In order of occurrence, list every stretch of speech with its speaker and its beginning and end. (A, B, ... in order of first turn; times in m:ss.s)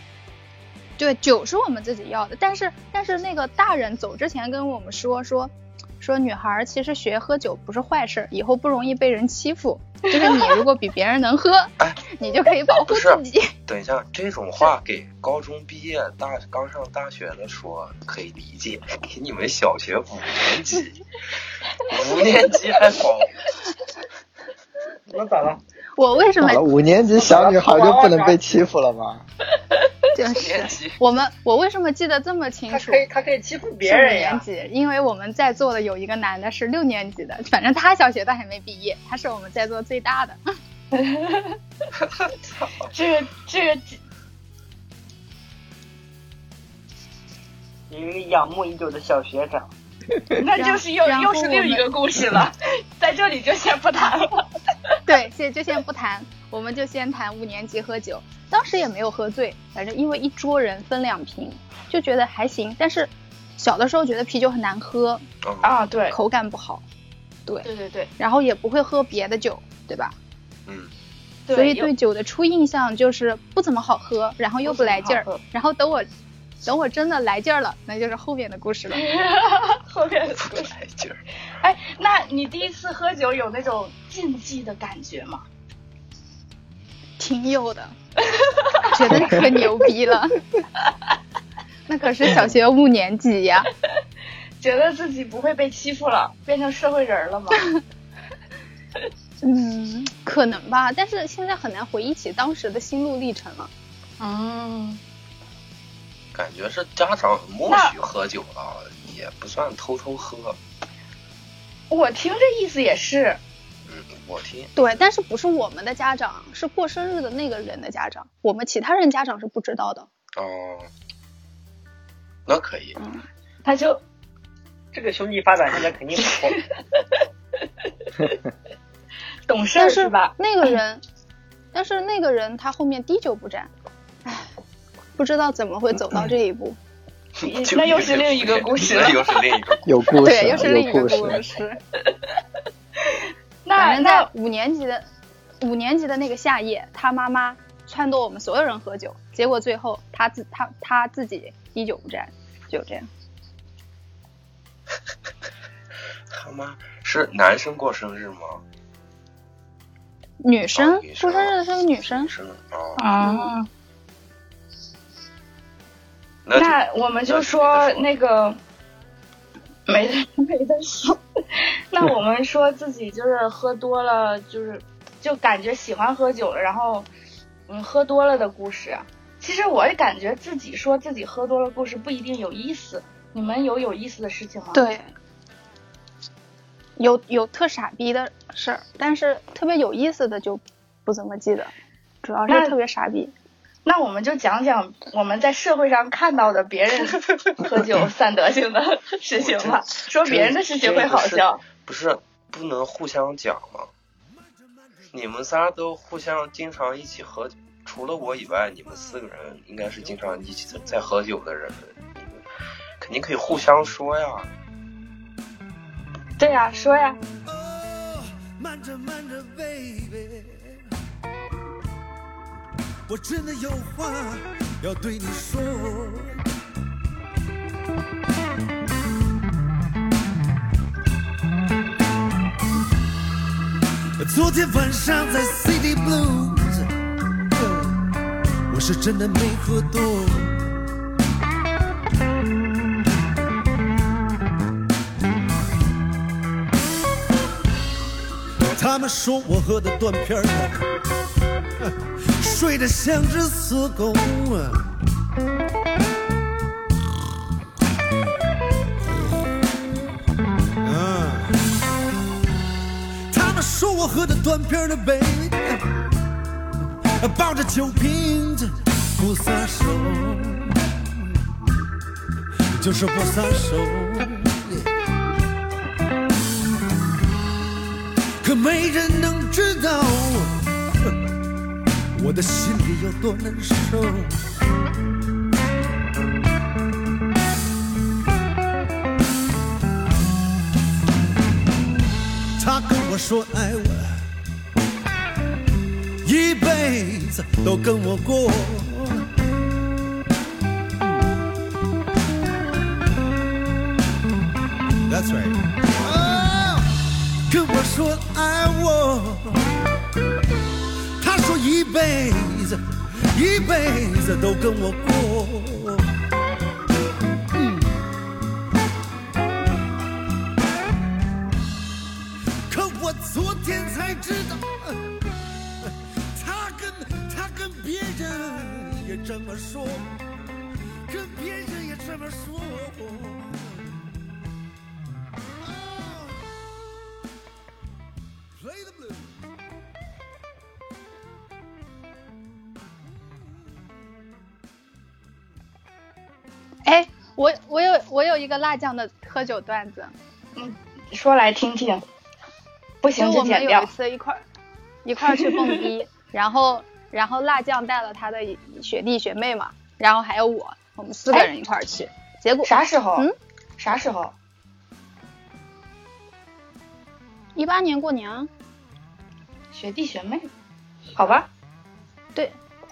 0:01.0-0:13.5 A
0:12.8-0:21.0 B
0:21.8-0:23.4 B
0:25.1-0:25.6 C
0:26.0-0:26.7 A
0:26.4-0:29.2 D
0:27.1-0:28.4 C
0:30.1-0:33.0 A
0:30.2-0:31.0 B
0:32.7-0:34.4 C
0:33.8-0:40.4 A
0:40.9-0:41.6 E
0:42.8-0:44.0 E
0:47.9-0:49.7 C
0:50.4-0:54.4 E
0:50.6-0:51.8 A
0:55.1-1:05.2 A
1:05.4-1:05.7 B
1:05.6-1:06.2 E
1:06.1-1:06.8 A
1:07.6-1:08.1 E
1:08.2-1:10.1 A
1:11.5-1:11.9 E
1:11.5-1:16.1 A
1:14.6-1:15.4 E
1:16.6-1:19.1 A
1:18.9-1:20.7 E
1:20.4-1:21.2 B
1:21.6-1:25.4 E
1:27.2-1:27.9 A
1:28.3-1:28.9 E
1:28.9-1:30.4 A
1:31.9-1:33.7 A
1:34.6-1:37.6 E
1:39.4-1:43.7 A
1:44.2-1:45.0 E
1:46.3-1:50.6 B
1:47.7-1:47.9 E
1:51.9-1:53.4 E
1:53.9-1:54.7 B
1:54.8-2:00.1 A
2:00.4-2:00.9 B
2:02.5-2:03.0 B
2:03.0-2:03.2 A
2:03.6-2:04.0 E
2:04.9-2:06.6 C
2:06.6-2:07.2 E
2:09.5-2:10.7 E
2:09.8-2:11.0 A
2:11.7-2:13.7 A
2:15.2-2:16.8 A
2:17.4-2:20.2 B
2:17.4-2:19.4 E
2:19.8-2:21.4 D
2:20.2-2:21.8 A
2:23.0-2:24.3 E
2:23.8-2:25.1 A
2:25.6-2:33.1 A
2:36.3-2:38.6 B
2:40.4-2:42.3 A
2:40.7-2:43.0 B
2:43.0-2:43.7 E
2:43.2-2:43.5 A
2:46.4-2:48.1 B
2:46.6-2:48.6 E
2:49.9-2:57.1 E
2:57.7-3:04.8 E
3:04.7-3:05.1 A
3:07.0-3:11.7 A
3:12.2-3:13.3 A
3:12.5-3:12.7 E
3:13.8-3:21.6 E
3:19.4-3:23.9 B
3:25.1-3:32.4 B
3:33.0-3:34.5 B
3:36.4-3:37.2 E
3:37.4-3:40.8 F
3:43.1-3:46.4 F
3:54.2-3:56.9 F
3:58.7-4:00.8 F
4:08.7-4:10.9 F
4:11.8-4:14.9 F
4:19.0-4:19.5 F
4:20.8-4:21.5 F
4:23.3-4:25.8 F
4:27.2-4:31.2 F
4:32.7-4:34.9 F
4:38.4-4:41.1 F
4:42.1-4:44.4 F
4:52.6-4:54.2 F
4:56.2-4:59.2 F
5:05.1-5:06.9 F
5:07.5-5:09.6 F
5:11.2-5:16.1 F
5:17.5-5:18.0 F
5:22.7-5:25.2 F
5:25.8-5:30.1 F
5:31.1-5:34.0 F
5:35.6-5:36.4 F
5:38.6-5:39.3 F
5:46.8-5:50.1 A
5:50.6-5:52.0 E
5:53.0-5:53.9 E
5:53.2-5:54.4 A
5:55.0-6:03.3 A
5:55.3-5:55.7 E
6:02.6-6:03.3 E
6:03.8-6:04.3 E
6:07.6-6:08.5 A
6:09.7-6:10.5 E
6:11.2-6:11.5 E